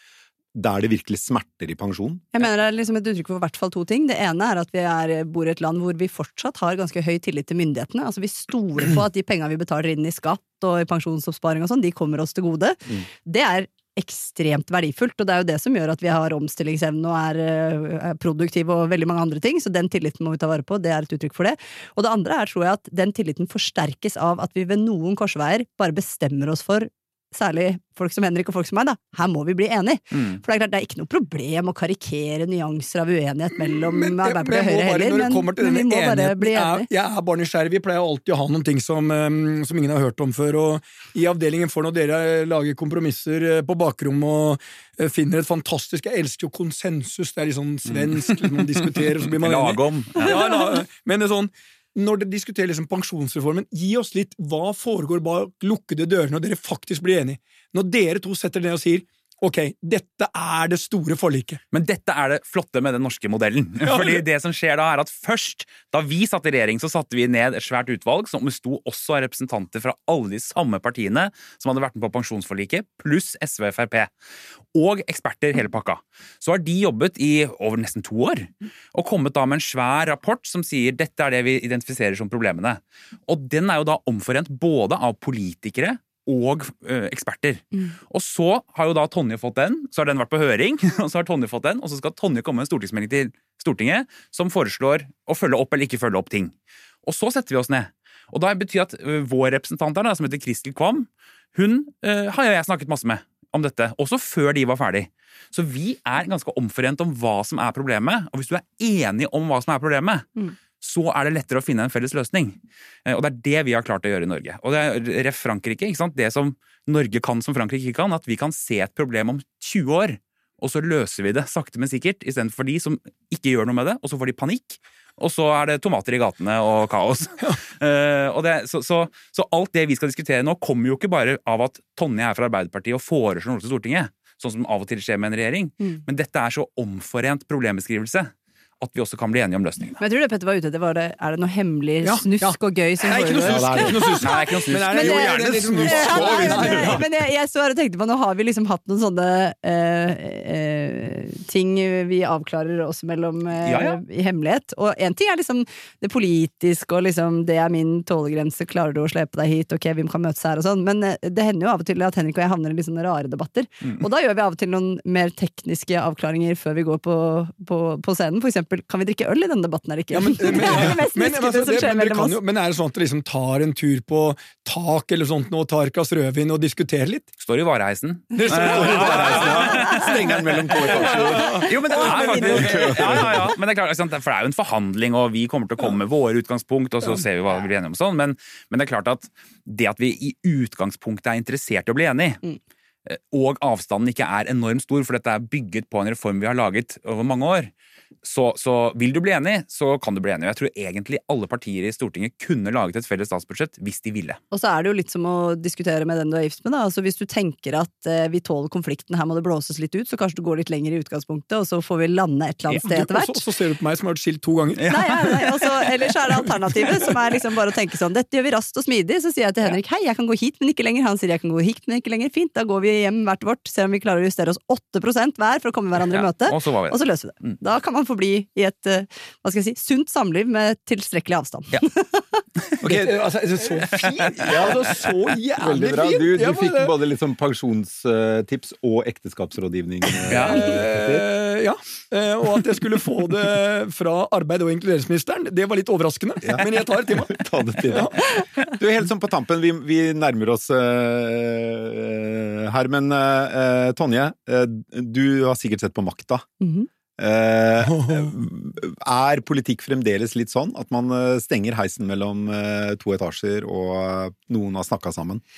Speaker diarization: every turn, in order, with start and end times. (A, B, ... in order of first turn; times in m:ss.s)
0:00.6-0:02.3 A
0:02.3-0:36.9 B
0:33.6-1:01.6 C
0:47.9-0:50.6 D
1:01.7-1:14.1 D
1:03.8-1:04.2 C
1:14.7-2:20.0 D
2:20.0-2:52.4 B
2:22.0-2:27.0 C
2:23.4-2:24.2 A
2:24.2-2:26.8 D
2:26.8-2:27.0 A
2:33.6-2:34.0 D
2:50.1-2:57.3 C
2:57.4-3:12.4 D
2:58.3-3:02.8 C
2:58.5-3:01.7 A
3:01.0-3:03.3 B
3:02.3-3:03.5 A
3:13.1-3:17.7 D
3:18.2-3:24.4 D
3:24.5-3:33.4 B
3:32.8-3:35.0 C
3:34.8-3:35.8 D
3:34.9-3:52.4 B
3:46.1-3:47.6 D
3:52.8-3:53.3 A
3:52.8-3:56.9 C
3:53.8-3:54.7 D
3:54.4-3:55.0 A
3:55.6-4:01.3 A
4:00.3-4:00.8 D
4:00.3-4:08.3 C
4:06.4-4:16.5 A
4:16.6-4:16.9 B
4:17.2-4:25.4 A
4:17.8-4:18.3 C